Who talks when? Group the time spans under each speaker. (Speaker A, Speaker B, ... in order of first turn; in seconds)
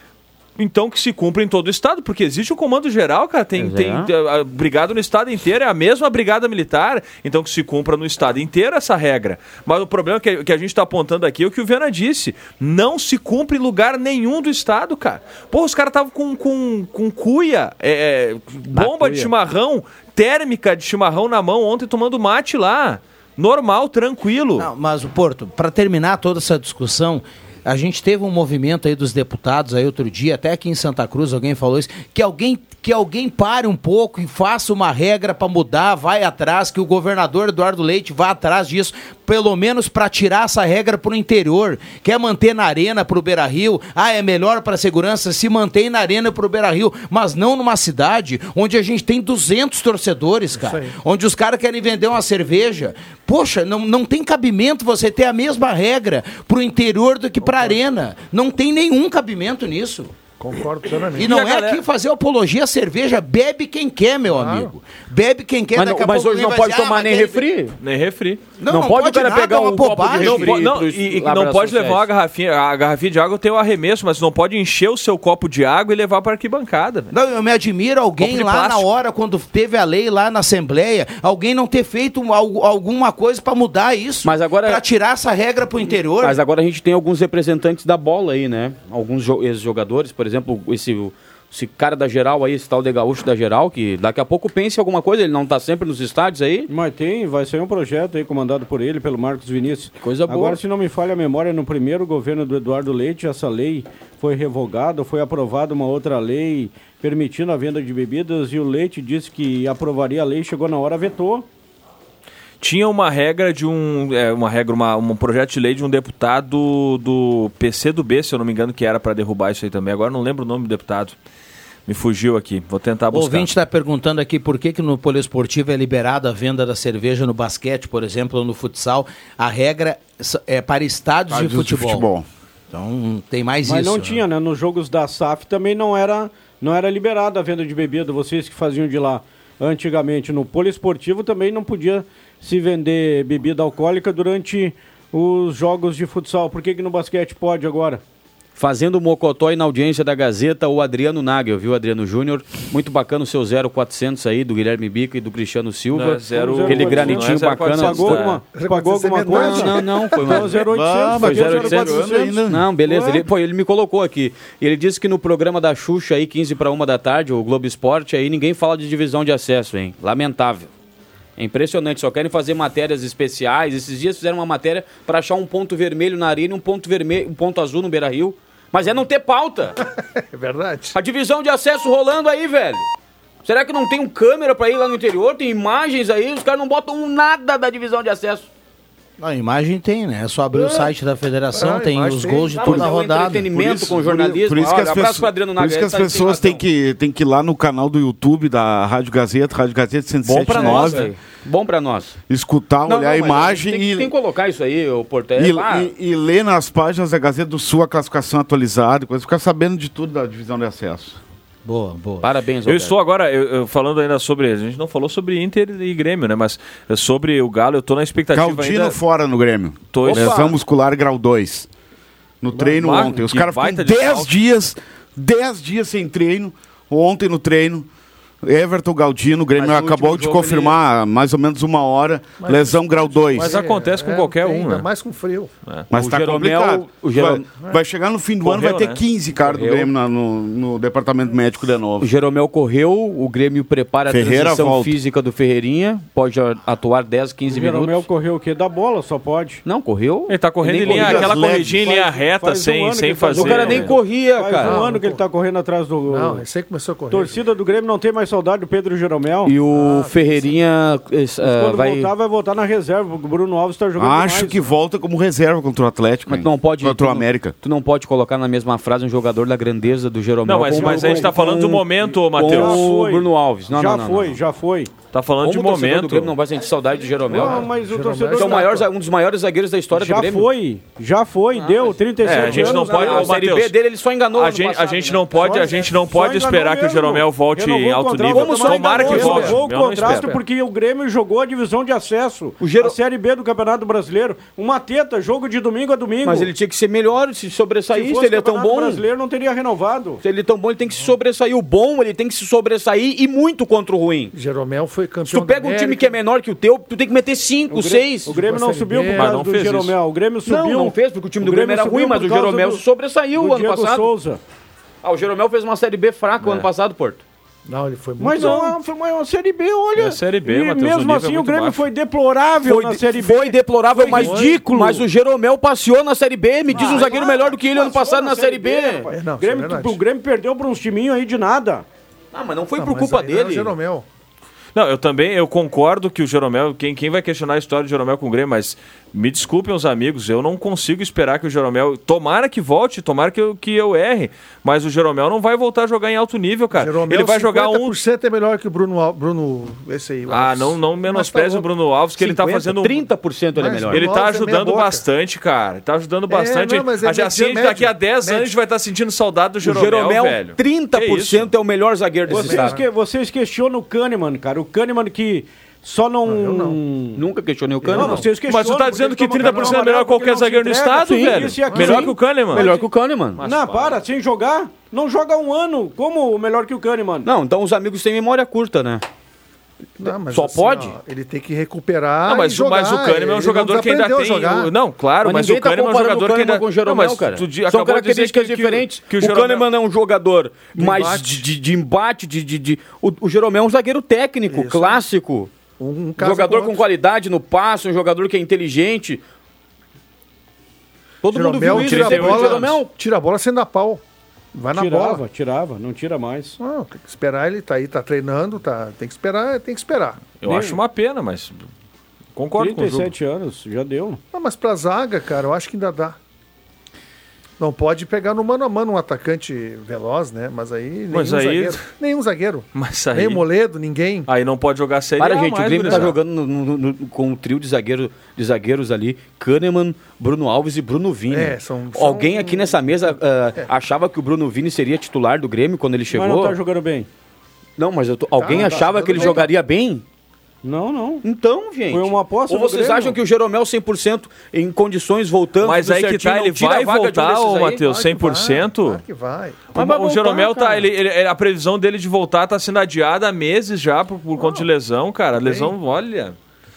Speaker A: 0.6-24.7, 67.8-68.4, 70.2-77.1, 78.2-78.9, 112.6-121.2, 121.9-123.5, 155.9-158.4, 212.7-219.0, 219.9-220.5, 222.7-224.3, 233.4-234.9, 238.4-239.0, 250.3-253.9, 270.4-272.9, 275.1-276.4, 282.2-283.8, 284.3-290.4, 309.1-310.0, 320.0-321.9, 334.8-347.9, 350.3-353.1, 353.9-361.5, 368.3-372.8, 373.4-374.0, 382.3-389.6, 401.7-402.8, 410.4-411.6, 412.4-413.1, 421.1-421.8, 422.8-423.5, 424.3-426.2, 445.6-449.0, 449.7-456.4
Speaker B: 3.6-4.1, 18.7-19.3, 61.2-61.8, 65.8-67.8, 68.7-72.0, 84.2-84.8, 86.2-96.7, 100.0-100.6, 148.6-158.3, 159.3-170.7, 171.4-179.8, 180.9-182.9, 183.4-188.5, 190.5-190.9, 192.5-196.6, 200.2-202.2, 202.9-205.9, 212.2-212.9, 220.1-220.6, 229.6-230.8, 235.9-237.5, 239.4-239.9, 242.0-248.1, 249.7-251.4, 253.3-254.8, 259.4-262.1, 266.3-274.4, 275.4-277.6, 278.3-280.5, 281.5-285.8, 288.3-290.2, 292.6-293.0, 296.2-299.0, 300.2-304.3, 305.3-308.4, 310.5-314.1, 315.0-317.2, 322.6-329.1, 332.3-333.7, 352.2-354.1, 359.6-362.8, 367.1-368.3, 371.1-373.4, 377.2-379.0, 380.0-380.9, 385.2-395.5, 396.2-399.2, 401.2-402.9, 425.2-436.6, 437.8-440.0, 441.2-447.8, 449.7-450.9
Speaker C: 24.6-60.1, 61.2-67.4, 68.6-70.6, 77.1-86.4, 123.1-132.1, 132.7-134.2, 189.2-193.5, 211.7-212.3
Speaker D: 50.5-51.0, 57.4-57.8, 60.4-61.3, 64.3-64.7, 158.5-160.5, 180.2-181.0, 191.5-192.6, 232.4-235.5, 254.6-255.2, 256.1-257.4, 259.6-260.5, 277.3-278.8, 288.9-289.6, 304.3-306.2, 308.3-309.4, 317.7-318.8, 324.0-324.6, 326.8-327.4, 329.1-330.0, 332.8-334.1, 346.8-351.7, 353.6-355.0, 356.3-358.5, 362.3-362.8, 366.2-366.8, 367.8-368.3, 369.0-369.8, 380.0-384.7, 390.8-391.5, 394.5-395.0, 395.8-396.9, 401.3-404.0, 404.5-405.2, 406.6-410.3, 414.3-416.2, 417.6-424.3, 431.3-433.7, 438.4-439.5, 447.8-449.7, 454.4-454.7, 455.4-455.8
Speaker E: 96.7-111.5, 133.7-148.0, 156.4-162.4, 247.4-249.6, 250.9-256.4, 257.1-259.6, 261.4-264.7, 270.7-271.5, 272.4-274.9, 277.3-278.9, 279.9-283.4, 285.4-296.5, 297.9-300.2, 307.7-312.8, 313.4-314.4, 318.2-325.1, 326.7-331.9, 362.3-367.2, 367.9-372.7, 373.4-377.3, 404.7-406.6, 410.4-410.8, 412.6-414.2, 436.1-437.1, 438.6-439.4, 440.6-441.2, 441.9-443.2
Speaker F: 131.3-132.3, 160.5-162.7, 193.5-201.1, 202.3-204.1, 205.4-211.2, 218.3-221.7, 222.4-227.9, 228.4-233.6, 235.9-242.1, 244.1-245.0, 250.9-251.9, 264.0-267.5